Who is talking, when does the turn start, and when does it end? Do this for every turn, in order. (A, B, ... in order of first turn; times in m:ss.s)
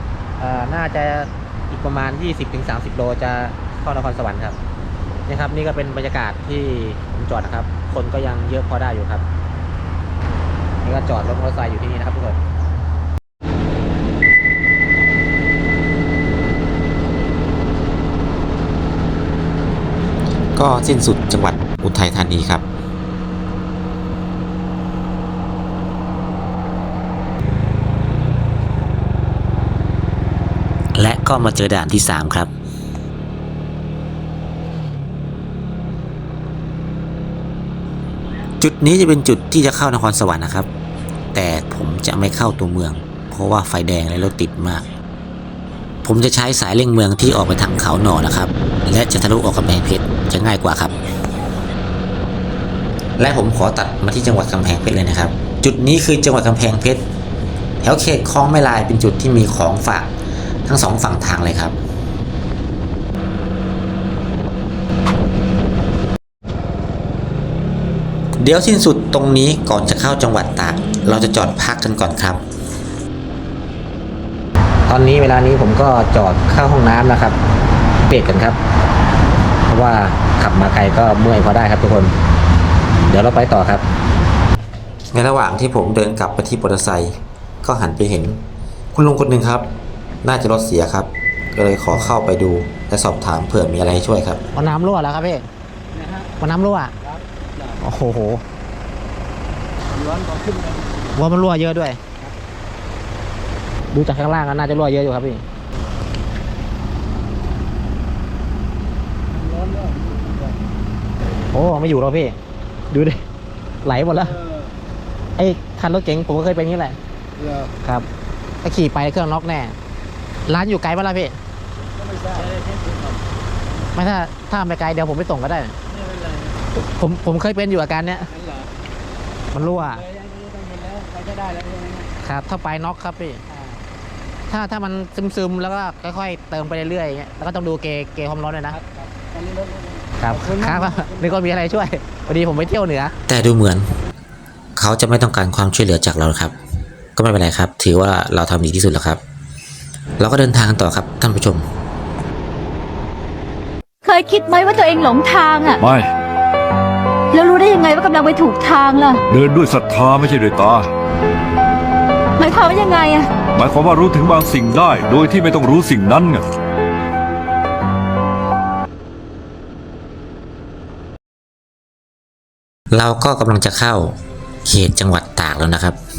0:00.4-0:04.6 A
0:05.3-0:09.2 A
0:10.8-0:12.4 A
0:20.6-0:22.6 B
0:31.0-0:32.5 B
0:38.6-0:40.7 B
0:41.3-0:44.9 B
0:46.0-0:50.9 B
0:53.2-0:57.0 B
0:57.8-1:00.1 B
1:00.6-1:01.7 B
1:08.4-1:12.4 B
1:14.9-1:17.4 A
1:18.1-1:18.6 A
1:19.7-1:22.1 A
1:23.1-1:23.8 A
1:25.1-1:28.4 B
1:28.9-1:29.7 B
1:30.2-1:34.4 B
1:34.5-1:35.4 A
1:36.4-1:36.9 A
1:37.8-1:38.4 A
1:41.2-1:42.0 A
1:43.9-1:45.4 A
1:51.5-1:52.3 A
1:52.9-1:53.2 A
1:53.8-1:54.4 A
1:55.4-1:57.0 A
1:58.6-1:59.7 A
2:00.5-2:01.4 A
2:03.9-2:05.7 A
2:06.8-2:08.3 A
2:09.5-2:10.0 A
2:12.2-2:13.4 A
2:14.5-2:18.8 A
2:20.2-2:23.1 A
2:23.3-2:23.9 B
2:24.8-2:26.5 B
2:27.2-2:29.2 B
2:30.2-2:31.7 B
2:34.0-2:35.8 C
2:35.8-2:36.1 D
2:37.3-2:39.2 C
2:39.3-2:40.9 D
2:42.4-2:43.3 C
2:43.5-2:46.4 D
2:52.9-2:56.0 B